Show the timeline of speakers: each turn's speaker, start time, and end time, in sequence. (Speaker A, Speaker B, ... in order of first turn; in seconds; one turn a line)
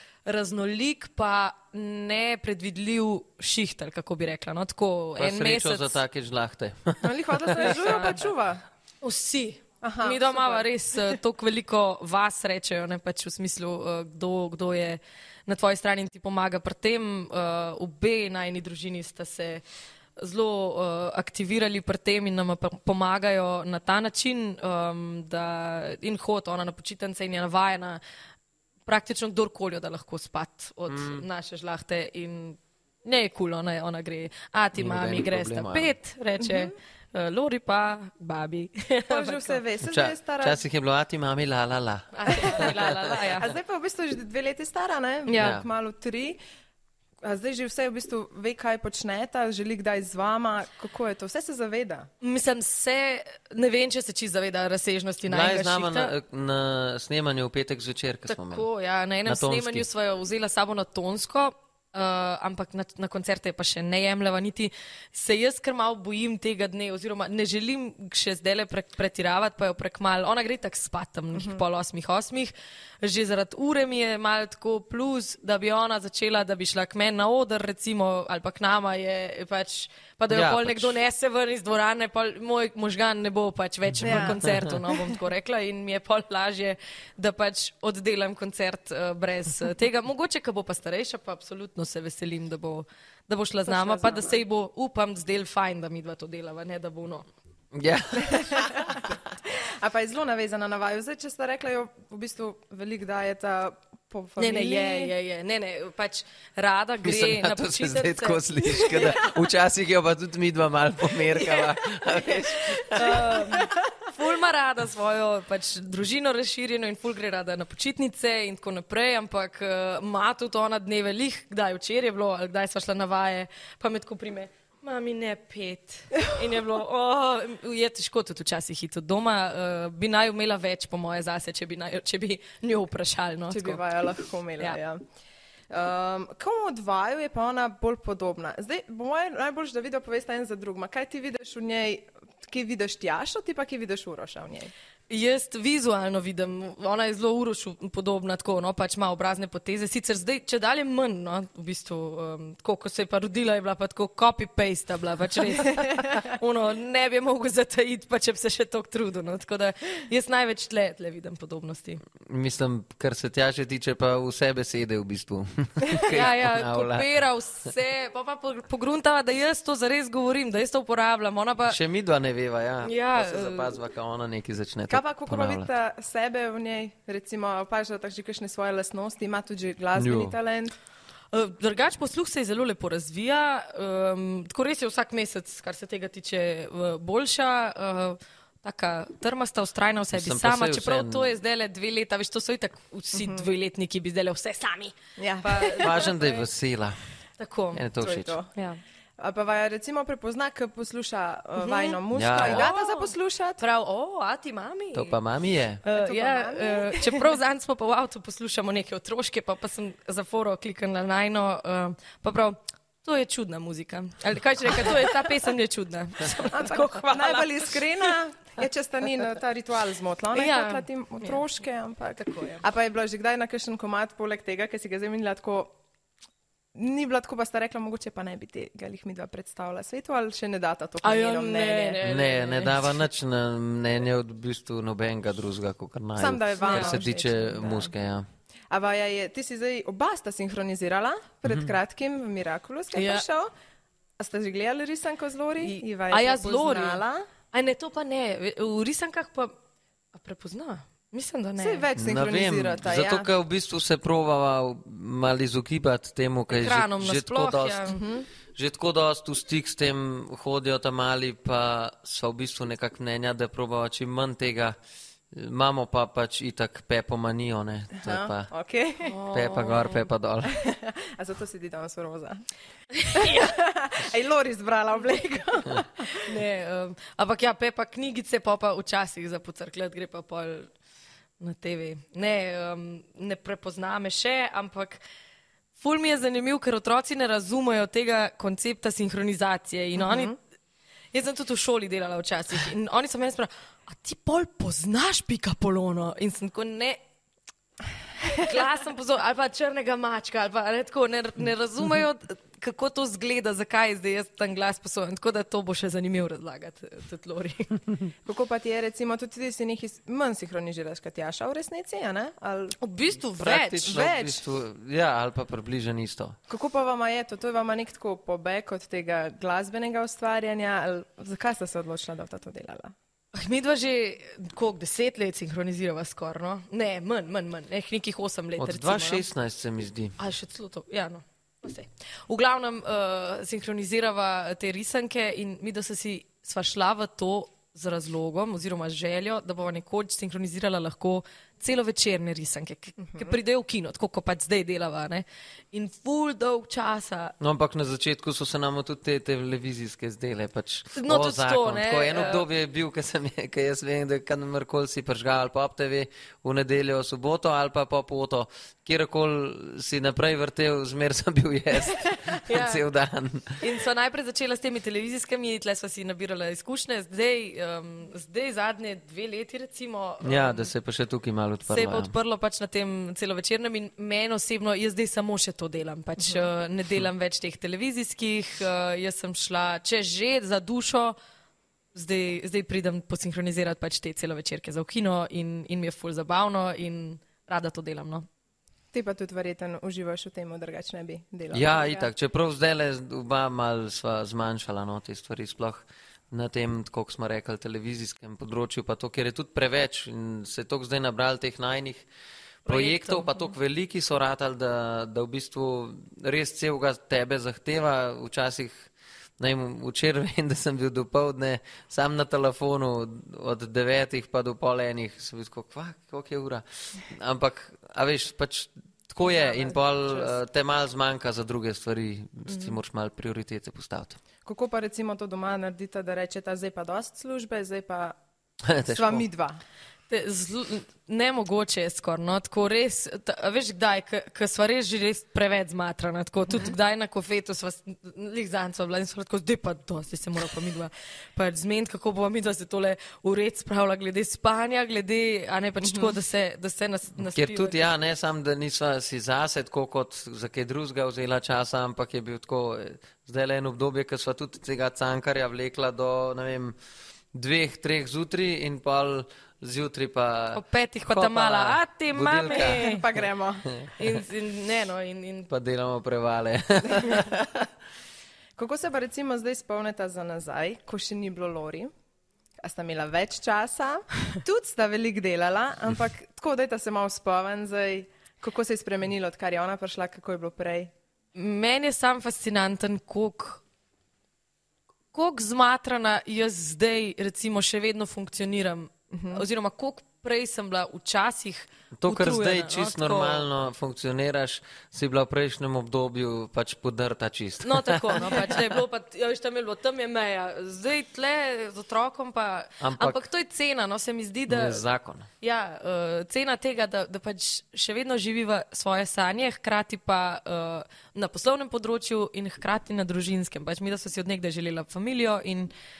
Speaker A: 0.2-6.0
Speaker B: 5.2-7.9
Speaker C: 7.0-8.6
Speaker A: 7.5-8.2
Speaker A: 9.0-19.6
Speaker C: 9.8-10.7
Speaker A: 20.2-28.0
Speaker A: 28.9-39.6
Speaker B: 30.9-31.2
Speaker B: 34.8-35.9
Speaker C: 36.4-36.7
Speaker C: 39.1-40.6
Speaker B: 39.9-43.1
Speaker A: 42.1-43.5
Speaker C: 42.4-42.7
Speaker C: 43.4-46.4
Speaker A: 45.2-45.6
Speaker B: 45.4-45.6
Speaker C: 47.2-52.1
Speaker A: 52.2-56.1
Speaker B: 55.3-58.7
Speaker A: 58.3-97.2
Speaker B: 59.2-59.9
Speaker B: 80.3-81.0
Speaker B: 84.0-84.7
Speaker C: 84.0-84.4
Speaker C: 93.7-94.4
Speaker B: 97.7-99.0
Speaker C: 98.2-105.1
Speaker A: 104.4-109.3
Speaker B: 107.0-113.5
Speaker A: 111.4-111.7
Speaker A: 112.2-133.8
Speaker C: 113.1-113.8
Speaker C: 133.5-135.0
Speaker C: 135.7-144.7
Speaker A: 145.1-162.0
Speaker B: 162.2-167.1
Speaker A: 166.0-171.8
Speaker B: 171.7-175.7
Speaker A: 172.8-173.8
Speaker C: 174.9-180.7
Speaker B: 179.9-180.3
Speaker A: 181.3-196.4
Speaker B: 190.1-191.3
Speaker C: 193.1-193.5
Speaker C: 195.2-196.0
Speaker B: 195.8-197.0
Speaker A: 197.4-197.8
Speaker B: 197.7-198.4
Speaker C: 198.0-198.5
Speaker A: 198.5-198.8
Speaker C: 199.2-203.6
Speaker A: 201.6-205.2
Speaker B: 202.1-202.7
Speaker B: 204.9-205.8
Speaker A: 205.8-218.1
Speaker C: 205.9-207.3
Speaker C: 216.5-225.8
Speaker A: 220.3-221.4
Speaker A: 222.1-222.6
Speaker C: 226.7-232.0
Speaker A: 231.0-232.9
Speaker B: 232.0-238.2
Speaker C: 236.2-237.9
Speaker A: 236.6-237.0
Speaker C: 238.7-243.5
Speaker A: 242.9-243.2
Speaker C: 244.2-247.3
Speaker A: 245.6-249.5
Speaker A: 250.1-251.9
Speaker C: 251.6-253.3
Speaker B: 251.9-258.0
Speaker A: 256.5-258.0
Speaker C: 257.9-258.3
Speaker B: 258.5-264.7
Speaker B: 265.3-268.5
Speaker C: 268.0-269.1
Speaker A: 269.0-270.1
Speaker B: 269.3-270.6
Speaker C: 270.4-272.4
Speaker A: 272.9-273.6
Speaker C: 273.1-276.3
Speaker A: 276.1-280.7
Speaker A: 281.4-285.0
Speaker A: 285.8-290.3
Speaker C: 290.0-290.3
Speaker A: 291.1-297.0
Speaker A: 298.3-307.8
Speaker C: 308.2-312.8
Speaker A: 312.8-314.0
Speaker B: 313.3-316.4
Speaker C: 313.8-314.4
Speaker C: 316.5-322.9
Speaker A: 323.3-329.2
Speaker B: 328.6-330.2
Speaker A: 330.2-347.3
Speaker C: 343.1-343.3
Speaker B: 347.4-363.6
Speaker A: 350.9-352.4
Speaker A: 362.4-362.8
Speaker A: 363.6-370.7
Speaker B: 370.2-372.1
Speaker A: 371.7-381.1
Speaker A: 381.9-388.2
Speaker C: 388.9-392.1
Speaker B: 391.5-402.0
Speaker B: 402.6-424.2
Speaker A: 402.7-403.5
Speaker C: 419.2-420.3
Speaker A: 422.5-422.7
Speaker C: 424.4-428.2
Speaker B: 428.6-429.2
Speaker C: 428.9-429.6
Speaker A: 430.1-447.9
Speaker C: 445.8-446.1
Speaker B: 447.2-456.7
Speaker B: 457.3-462.9
Speaker A: 460.5-463.0
Speaker C: 462.5-463.7
Speaker B: 463.7-464.1
Speaker A: 464.0-465.5
Speaker B: 465.5-467.7
Speaker C: 468.6-471.9
Speaker C: 472.6-480.9
Speaker A: 481.3-483.6
Speaker A: 485.1-493.4
Speaker C: 489.1-489.4
Speaker B: 491.9-498.6
Speaker A: 497.6-504.8
Speaker B: 502.8-503.2
Speaker B: 504.5-505.3
Speaker A: 505.4-515.7